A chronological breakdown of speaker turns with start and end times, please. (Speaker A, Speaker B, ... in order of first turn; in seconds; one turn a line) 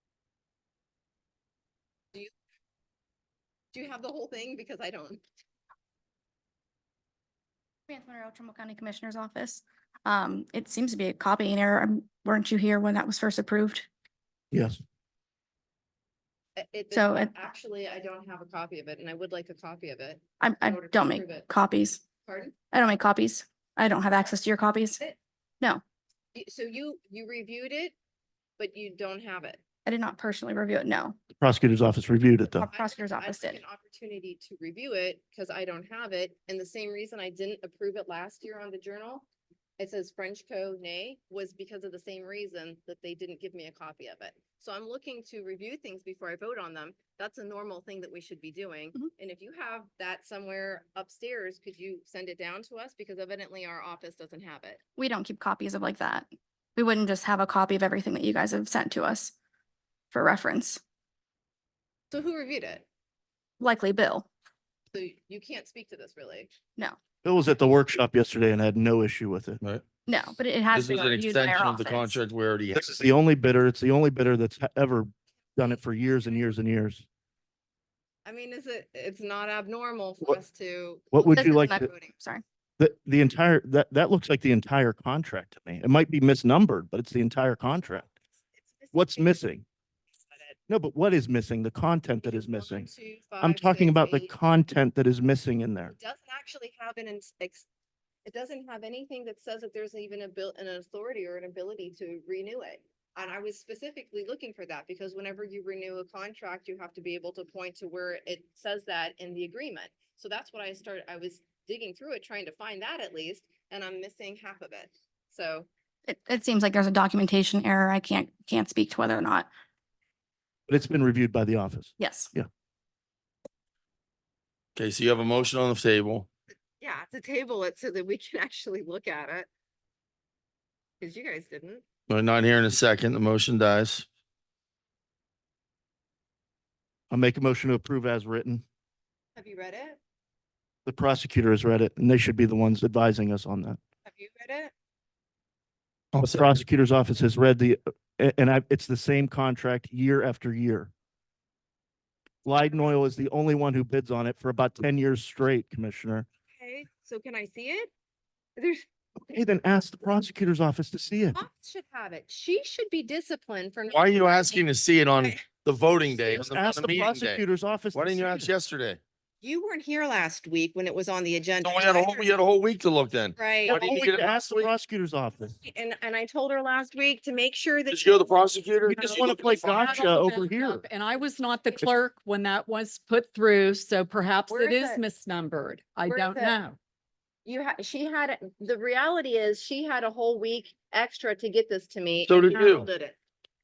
Speaker A: 3.7-5.2
Speaker B: 7.9-13.9
Speaker C: 14.5-14.8
Speaker A: 16.6-21.5
Speaker B: 16.9-17.3
Speaker B: 20.4-22.0
Speaker A: 22.2-22.6
Speaker B: 22.7-25.0
Speaker A: 24.9-25.2
Speaker A: 26.4-27.9
Speaker A: 28.6-29.6
Speaker B: 29.9-31.2
Speaker C: 31.3-32.7
Speaker B: 32.5-33.6
Speaker A: 32.7-39.3
Speaker A: 39.8-54.8
Speaker B: 55.0-59.3
Speaker B: 60.1-60.8
Speaker A: 62.1-62.9
Speaker B: 63.6-64.3
Speaker A: 64.9-66.5
Speaker C: 67.2-69.6
Speaker B: 70.1-72.2
Speaker D: 70.7-72.9
Speaker C: 72.7-77.0
Speaker A: 78.2-82.2
Speaker C: 81.1-81.9
Speaker B: 81.3-82.4
Speaker C: 82.8-88.1
Speaker A: 88.6-89.4
Speaker C: 88.9-89.7
Speaker C: 90.7-92.9
Speaker A: 92.2-94.3
Speaker C: 93.4-95.9
Speaker A: 95.9-97.7
Speaker A: 98.2-115.7
Speaker B: 116.1-119.5
Speaker C: 120.7-122.5
Speaker B: 122.0-122.3
Speaker D: 124.8-126.3
Speaker A: 126.8-129.5
Speaker A: 131.0-131.8
Speaker D: 132.1-134.1
Speaker C: 137.1-138.6
Speaker A: 139.4-140.0
Speaker C: 140.9-143.8
Speaker A: 144.1-144.7
Speaker D: 146.1-146.5
Speaker C: 146.2-150.9
Speaker C: 152.4-156.3
Speaker A: 156.5-157.9
Speaker A: 158.6-158.9
Speaker C: 159.2-161.4
Speaker A: 161.3-164.7
Speaker D: 163.9-167.4
Speaker C: 166.3-168.5
Speaker D: 167.9-169.0
Speaker A: 169.4-172.3
Speaker D: 171.6-174.7
Speaker A: 173.4-173.9
Speaker C: 173.7-175.6
Speaker A: 175.6-178.4
Speaker D: 177.9-179.9
Speaker C: 178.8-180.8
Speaker E: 179.6-186.8
Speaker A: 184.5-185.0
Speaker A: 186.1-186.6
Speaker A: 187.4-193.2
Speaker D: 192.3-192.9